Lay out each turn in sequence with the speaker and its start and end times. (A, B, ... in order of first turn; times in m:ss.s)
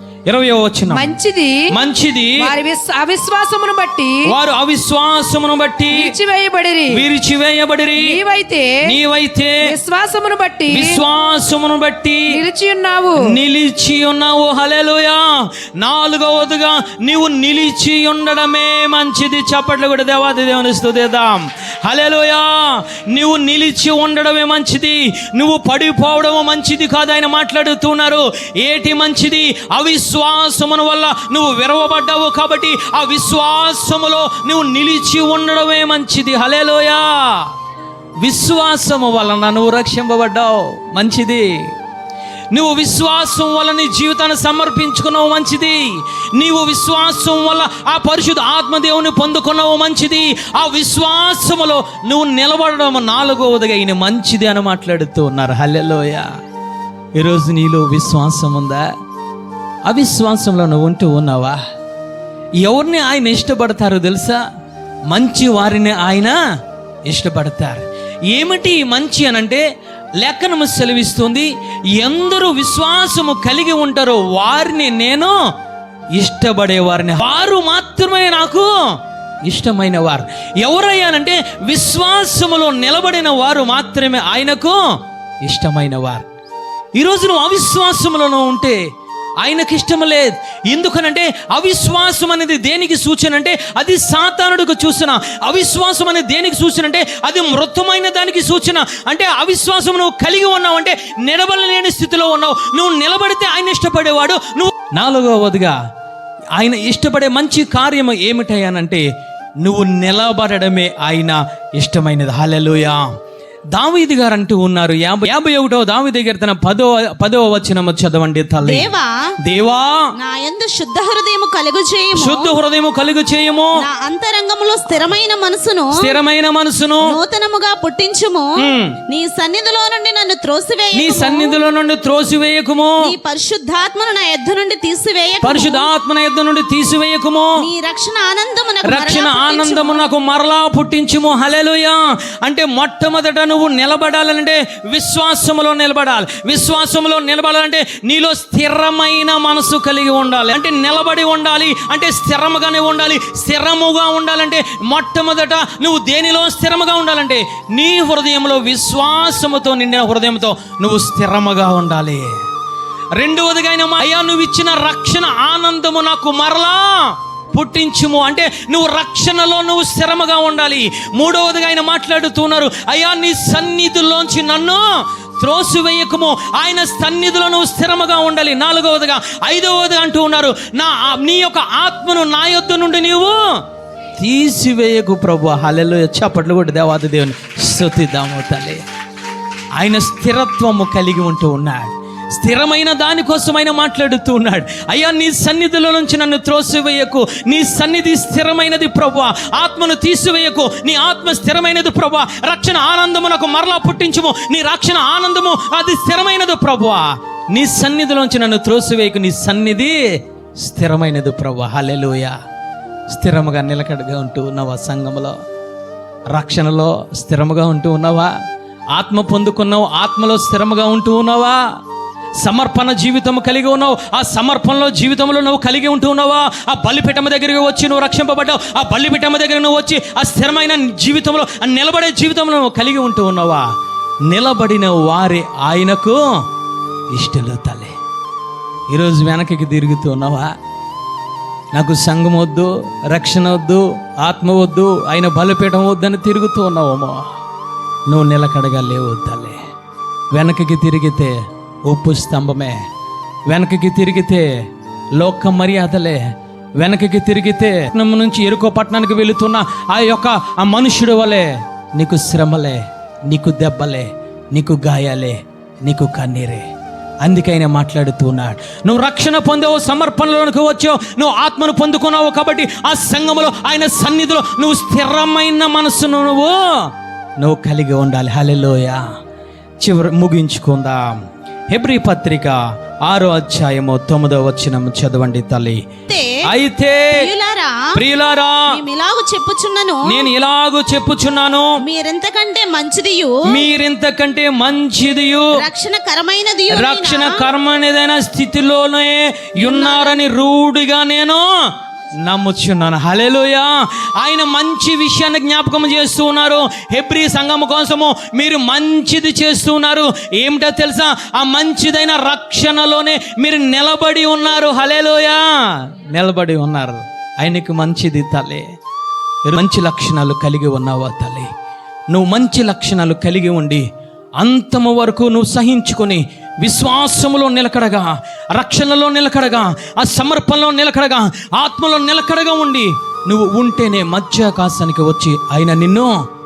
0:00.3-0:01.2 A
0:00.9-0:01.7 B
0:01.7-0:02.5 A
0:02.4-0:04.2 B
0:04.2-0:06.1 A
0:05.9-0:07.0 B
0:06.9-0:08.2 A
0:08.0-0:08.8 B
0:08.8-0:09.7 A
0:09.6-0:11.0 B
0:10.7-0:12.3 A
0:12.3-0:13.2 B
0:13.2-0:37.5 A
0:38.2-0:41.5 A
0:42.5-0:56.3 A
0:57.2-0:58.9 A
0:59.8-1:01.6 A
1:02.6-1:04.4 A
1:05.1-1:06.4 A
1:07.1-1:09.6 A
1:10.2-1:15.4 A
1:16.1-1:18.7 A
1:19.4-1:24.8 A
1:25.4-1:26.3 A
1:27.0-1:28.8 A
1:29.4-1:45.8 A
1:46.6-1:49.0 A
1:49.6-1:53.0 A
1:53.7-1:58.9 A
1:58.6-1:59.1 C
1:59.5-2:00.1 A
2:00.2-2:02.6 C
2:02.2-2:03.8 A
2:03.8-2:06.0 C
2:05.9-2:07.2 A
2:07.0-2:08.5 C
2:08.6-2:09.0 A
2:09.1-2:11.6 C
2:10.9-2:13.1 A
2:13.0-2:15.9 C
2:15.4-2:17.6 A
2:17.6-2:20.1 C
2:18.8-2:42.3 A
2:43.2-2:54.9 A
2:55.4-3:03.4 A
3:04.2-3:08.8 A
3:09.8-3:30.0 A
3:30.6-3:32.4 A
3:33.1-3:35.4 A
3:36.3-3:38.3 A
3:38.9-3:41.6 A
3:42.4-3:53.7 A
3:54.3-3:56.2 A
3:57.1-3:57.9 A
3:58.9-4:00.5 A
4:01.7-4:07.2 A
4:08.1-4:09.6 A
4:10.3-4:11.4 A
4:11.9-4:12.8 A
4:13.5-4:14.5 A
4:15.2-4:16.2 A
4:16.8-4:26.7 A
4:27.2-4:36.6 A
4:37.4-4:39.0 A
4:39.8-4:45.9 A
4:46.4-4:47.3 A
4:47.1-4:48.0 C
4:48.0-4:48.8 A
4:48.7-4:50.3 C
4:50.1-4:51.8 A
4:51.8-4:53.4 C
4:53.5-4:55.6 A
4:55.5-4:57.4 C
4:56.7-5:01.5 A
4:59.6-5:00.2 C
5:02.2-5:18.6 A
5:19.5-5:21.5 A
5:22.1-5:23.8 A
5:24.4-5:36.1 A